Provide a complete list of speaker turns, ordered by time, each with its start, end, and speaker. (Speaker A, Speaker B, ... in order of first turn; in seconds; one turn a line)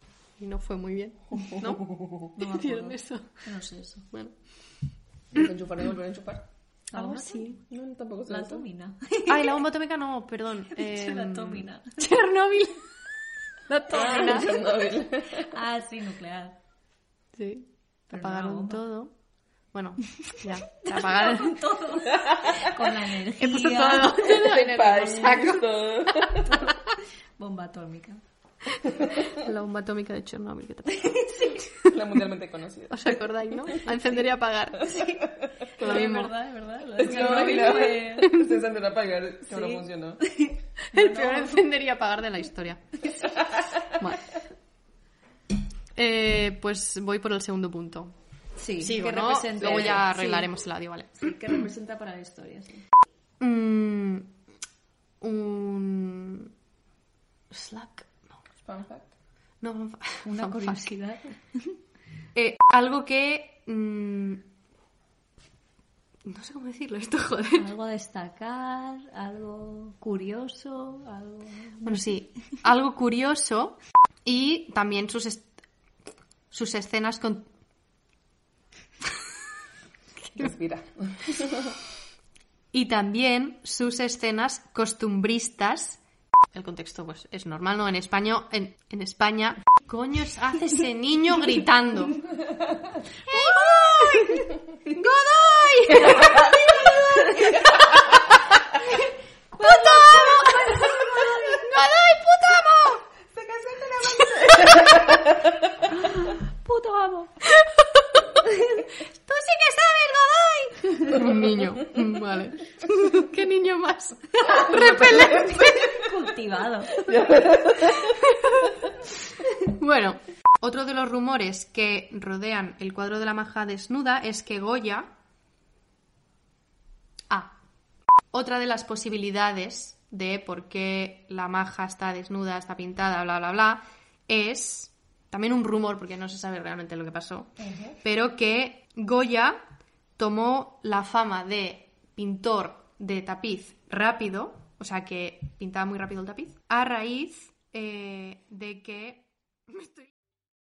Speaker A: 0.4-3.4
Speaker B: 2.4-4.0
Speaker A: 4.1-4.4
Speaker C: 5.3-6.5
Speaker B: 6.9-7.7
Speaker A: 6.9-7.6
Speaker C: 7.7-8.7
Speaker B: 8.3-9.6
Speaker A: 9.3-12.9
Speaker B: 10.7-11.9
Speaker A: 13.7-14.5
Speaker C: 13.9-15.6
Speaker B: 14.0-14.8
Speaker B: 15.3-16.6
Speaker A: 17.3-19.1
Speaker B: 18.1-18.8
Speaker A: 19.7-21.6
Speaker B: 20.8-24.4
Speaker A: 23.4-25.9
Speaker C: 24.2-26.5
Speaker B: 26.5-26.8
Speaker B: 27.4-28.2
Speaker A: 28.9-32.1
Speaker C: 31.9-33.1
Speaker A: 32.9-35.1
Speaker B: 35.0-38.4
Speaker A: 35.8-36.3
Speaker C: 37.0-40.2
Speaker B: 39.5-41.6
Speaker A: 40.9-42.8
Speaker A: 44.0-44.2
Speaker A: 46.0-48.1
Speaker B: 48.6-50.5
Speaker A: 48.8-51.3
Speaker B: 51.2-52.8
Speaker A: 53.4-54.3
Speaker A: 55.2-56.5
Speaker A: 57.5-58.3
Speaker C: 58.6-59.1
Speaker A: 59.6-60.9
Speaker B: 60.2-61.7
Speaker A: 62.3-64.5
Speaker A: 66.3-67.7
Speaker B: 67.5-72.0
Speaker A: 71.8-75.5
Speaker A: 76.5-77.5
Speaker C: 80.3-81.7
Speaker A: 82.7-86.0
Speaker A: 86.5-92.3
Speaker A: 93.2-98.5
Speaker B: 96.2-96.9
Speaker B: 99.5-101.8
Speaker A: 99.6-103.0
Speaker C: 103.3-105.2
Speaker B: 105.9-107.3
Speaker B: 108.5-109.4
Speaker A: 109.3-116.1
Speaker B: 110.4-111.0
Speaker B: 114.8-117.0
Speaker C: 117.1-118.1
Speaker A: 118.2-118.7
Speaker A: 119.6-125.1
Speaker A: 127.3-127.6
Speaker A: 128.3-139.6
Speaker A: 140.2-150.1